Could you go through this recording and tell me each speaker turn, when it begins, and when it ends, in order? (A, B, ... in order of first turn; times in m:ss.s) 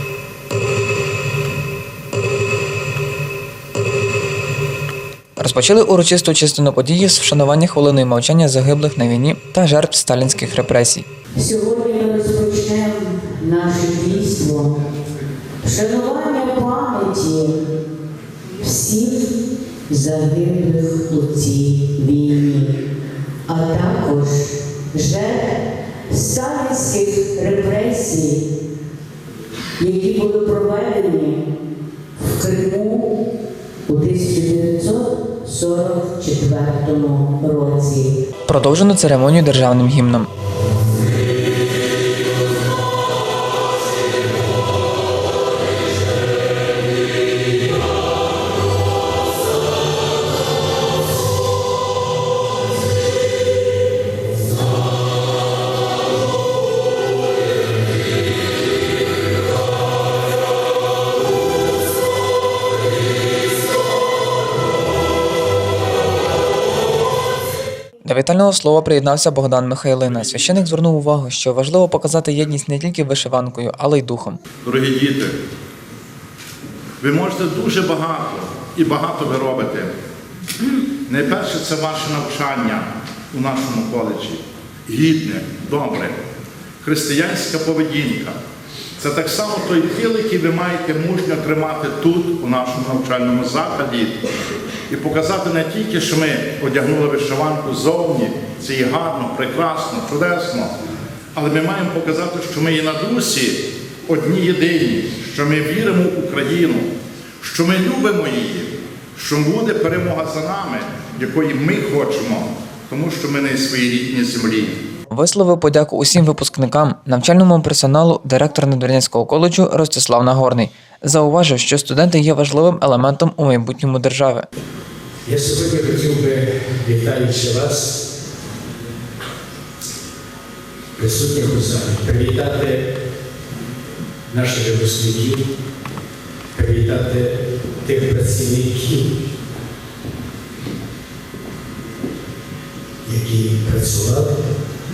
0:05.4-0:11.0 A
0:11.4-0:14.8 B
0:15.6-0:17.6 B
0:18.6-0:19.3 B
0:19.9-0:22.7 B
0:23.5-0:28.4 B
0:29.8-0:31.4 B
0:32.2-0:33.1 B
0:33.9-0:38.2 B
0:38.5-0:40.3 A
1:08.0-1:14.4 A
1:14.6-1:15.3 C
1:17.0-1:20.0 C
1:21.1-1:26.2 C
1:26.8-1:28.4 C
1:29.0-1:34.2 C
1:34.9-1:40.7 C
1:41.3-1:46.9 C
1:47.4-1:54.8 C
1:55.1-2:04.4 A
2:05.3-2:08.0 D
2:11.0-2:12.9 D
2:14.3-2:15.4 D
2:16.6-2:19.1 D
2:23.0-2:24.4 D